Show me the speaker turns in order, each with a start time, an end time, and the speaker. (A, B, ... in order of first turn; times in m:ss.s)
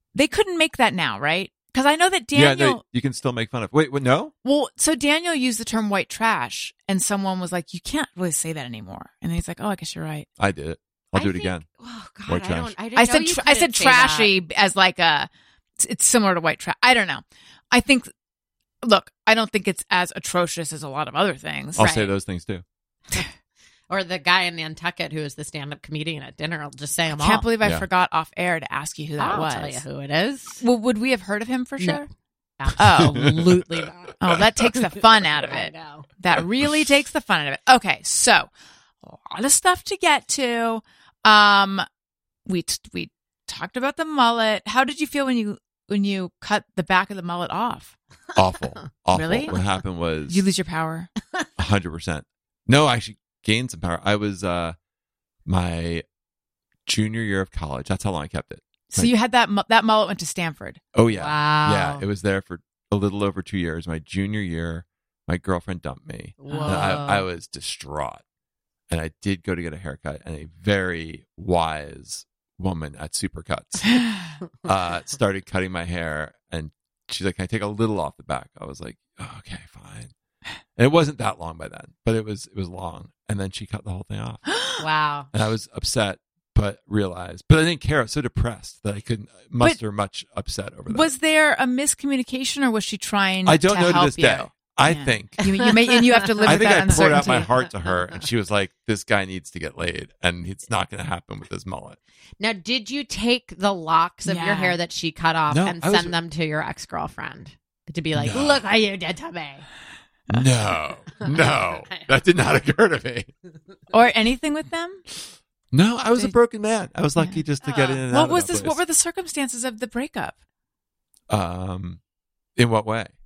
0:00.2-0:02.8 A
0:02.4-0:04.3 B
0:04.4-0:10.3 A
0:10.4-0:11.7 B
0:11.2-0:14.3 C
0:12.3-0:12.7 B
0:13.0-0:15.3 A
0:15.8-0:18.1 A
0:18.8-0:21.8 A
0:21.8-0:22.6 B
0:21.8-0:22.1 C
0:23.9-0:27.5 C
0:27.1-0:29.8 A
0:29.2-0:30.6 C
0:30.6-0:32.1 A
0:32.6-0:34.2 C
0:32.8-0:33.3 A
0:33.2-0:33.8 B
0:34.2-0:38.5 A
0:35.4-0:36.1 C
0:39.0-0:41.9 A
0:42.5-0:47.9 A
0:48.4-0:50.4 B
0:49.1-0:49.6 A
0:50.3-0:51.1 A
0:51.6-0:54.8 B
0:55.5-0:56.0 B
0:56.9-0:59.1 B
0:58.9-1:00.8 A
1:00.9-1:08.2 B
1:01.1-1:02.0 C
1:06.4-1:07.2 C
1:06.5-1:06.9 A
1:08.9-1:14.1 B
1:14.6-1:20.1 B
1:20.8-1:24.4 B
1:24.8-1:25.3 C
1:25.3-1:31.1 B
1:30.9-1:37.5 A
1:33.4-1:35.4 B
1:35.4-1:38.2 C
1:36.4-1:42.0 B
1:42.4-1:49.7 C
1:44.3-1:44.8 A
1:45.5-1:46.2 B
1:48.2-1:48.6 B
1:50.3-1:53.3 B
1:51.2-1:52.1 C
1:53.9-1:55.0 A
1:55.7-1:58.8 B
1:57.2-1:57.4 A
1:57.6-1:58.0 C
1:58.1-2:00.4 A
2:01.3-2:02.0 B
2:02.6-2:03.1 B